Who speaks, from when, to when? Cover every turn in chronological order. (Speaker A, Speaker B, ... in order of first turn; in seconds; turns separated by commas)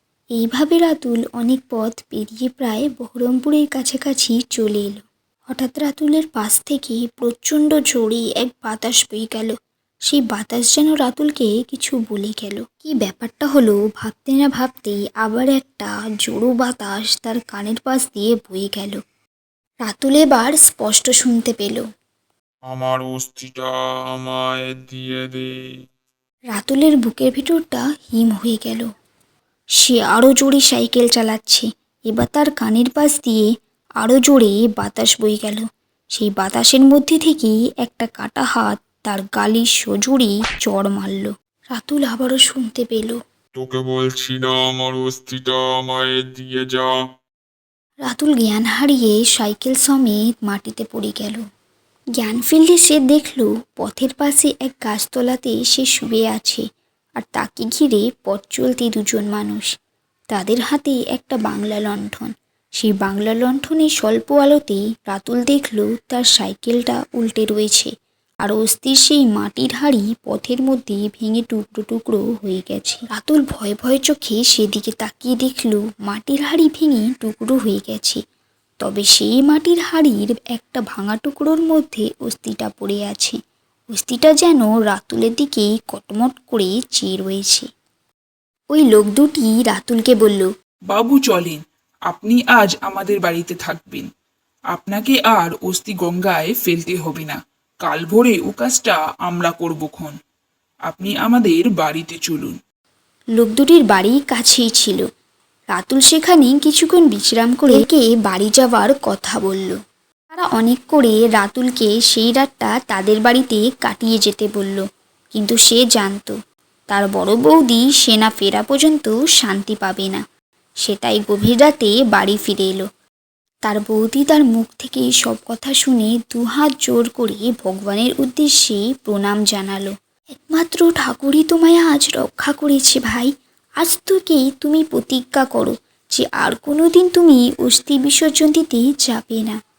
Speaker A: 0.3-9.6, Speaker A: 10.1-19.0, Speaker A: 19.9-21.8, Speaker B: 22.7-25.5, Speaker A: 26.5-28.9, Speaker A: 29.8-33.5, Speaker A: 34.0-43.2, Speaker B: 43.6-47.0, Speaker A: 48.1-51.4, Speaker A: 52.2-56.6, Speaker A: 57.2-59.7, Speaker A: 60.3-67.9, Speaker A: 68.4-78.2, Speaker A: 78.8-83.4, Speaker A: 83.9-87.7, Speaker A: 88.7-90.5, Speaker C: 90.9-94.1, Speaker C: 94.7-100.1, Speaker C: 100.9-102.6, Speaker A: 103.4-105.0, Speaker A: 105.7-109.8, Speaker A: 110.3-114.8, Speaker A: 115.3-116.3, Speaker A: 116.9-120.2, Speaker A: 120.8-122.8, Speaker A: 123.7-139.6